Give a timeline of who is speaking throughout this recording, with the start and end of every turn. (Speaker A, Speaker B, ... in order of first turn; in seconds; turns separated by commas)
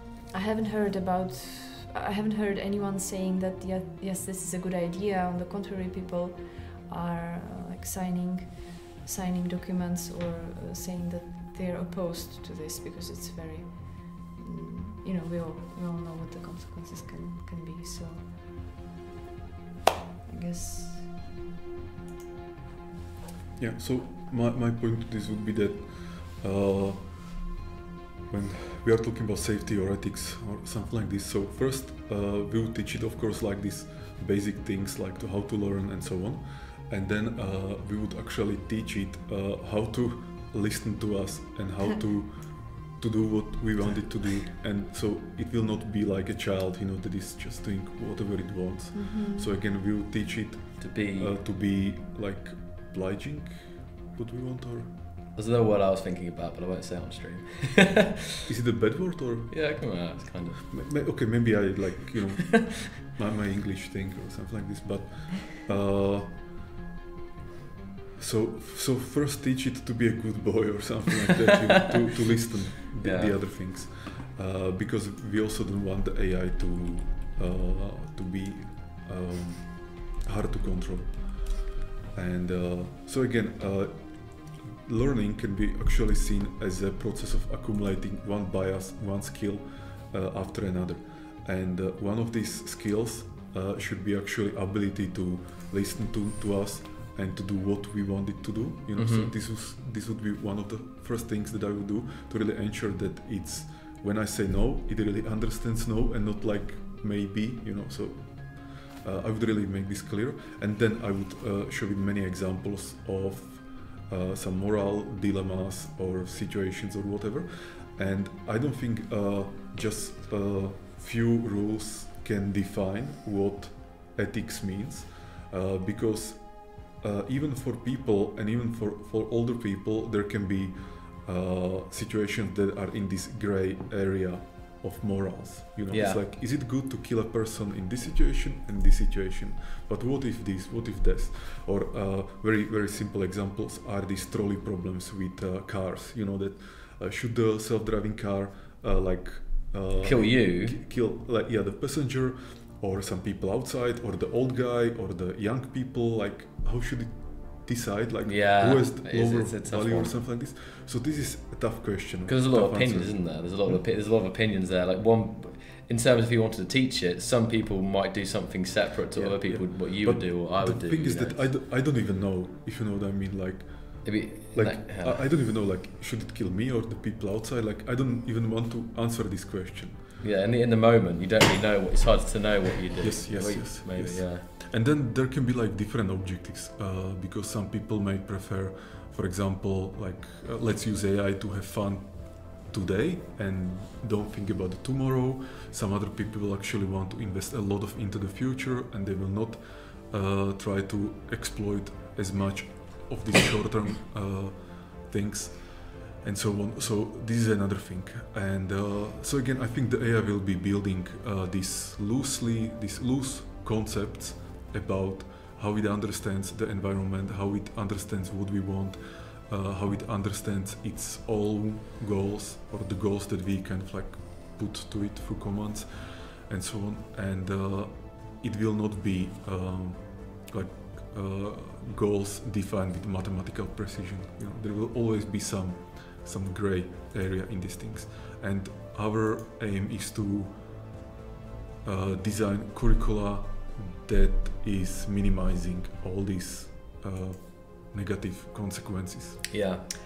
Speaker A: 0.3-18.2, Speaker A: 20.3-21.1, Speaker B: 23.6-27.4, Speaker B: 28.3-54.9, Speaker A: 48.9-49.5, Speaker C: 50.8-51.3, Speaker C: 55.3-58.2, Speaker B: 58.5-60.0, Speaker C: 59.5-60.7, Speaker B: 60.7-66.5, Speaker B: 68.2-163.8, Speaker C: 73.0-73.4, Speaker C: 99.0-99.3, Speaker C: 135.9-136.2, Speaker C: 150.0-150.8, Speaker C: 158.2-160.1, Speaker C: 162.3-171.5, Speaker B: 169.1-180.0, Speaker C: 174.0-175.2, Speaker C: 180.2-184.4, Speaker B: 183.0-240.9, Speaker B: 241.8-249.5, Speaker C: 249.5-249.8